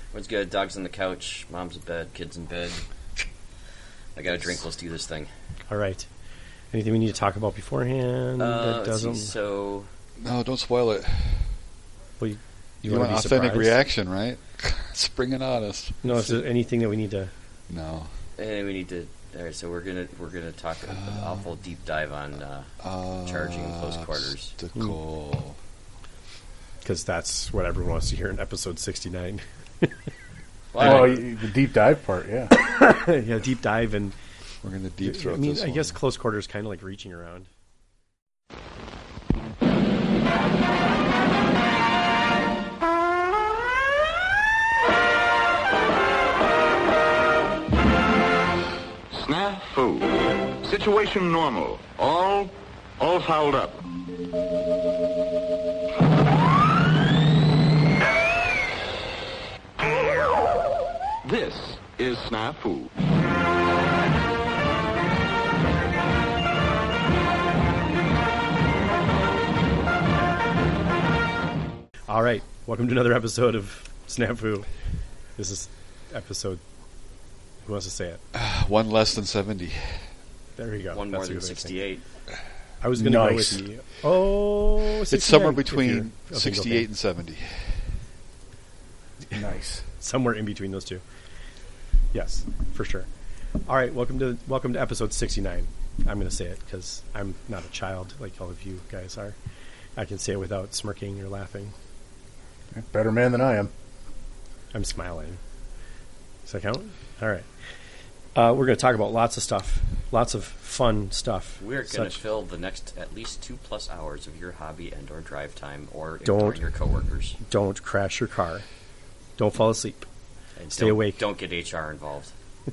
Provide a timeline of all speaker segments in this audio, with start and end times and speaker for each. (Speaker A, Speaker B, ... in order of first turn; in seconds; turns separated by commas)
Speaker A: 0.1-2.9, Speaker A: 4.2-5.3, Speaker B: 5.7-6.1, Speaker B: 6.7-9.3, Speaker A: 8.4-9.9, Speaker C: 10.2-11.5, Speaker B: 12.2-13.8, Speaker C: 12.8-16.4, Speaker B: 16.0-17.3, Speaker C: 17.7-18.1, Speaker A: 18.4-22.7, Speaker C: 20.9-21.5, Speaker C: 22.8-25.6, Speaker A: 23.2-24.6, Speaker B: 26.8-29.9, Speaker A: 30.7-31.2, Speaker D: 30.8-32.5, Speaker B: 32.6-34.1, Speaker C: 34.6-36.0, Speaker B: 35.0-37.5, Speaker E: 49.1-53.8, Speaker E: 61.2-62.9, Speaker B: 72.1-74.7, Speaker B: 75.4-76.6, Speaker B: 77.7-78.2, Speaker C: 78.3-80.1, Speaker B: 80.6-81.8, Speaker A: 80.9-82.0, Speaker B: 82.8-86.9, Speaker D: 83.0-83.6, Speaker C: 85.0-87.8, Speaker D: 89.3-89.8, Speaker B: 90.0-91.0, Speaker B: 92.1-93.1, Speaker B: 93.7-99.4, Speaker B: 100.0-101.7, Speaker D: 102.7-103.7, Speaker B: 104.7-105.4, Speaker B: 106.5-107.5, Speaker B: 108.3-112.2, Speaker A: 111.6-117.4, Speaker B: 116.2-116.6, Speaker B: 117.5-118.7, Speaker B: 119.4-120.1, Speaker A: 120.6-122.3, Speaker B: 120.8-121.2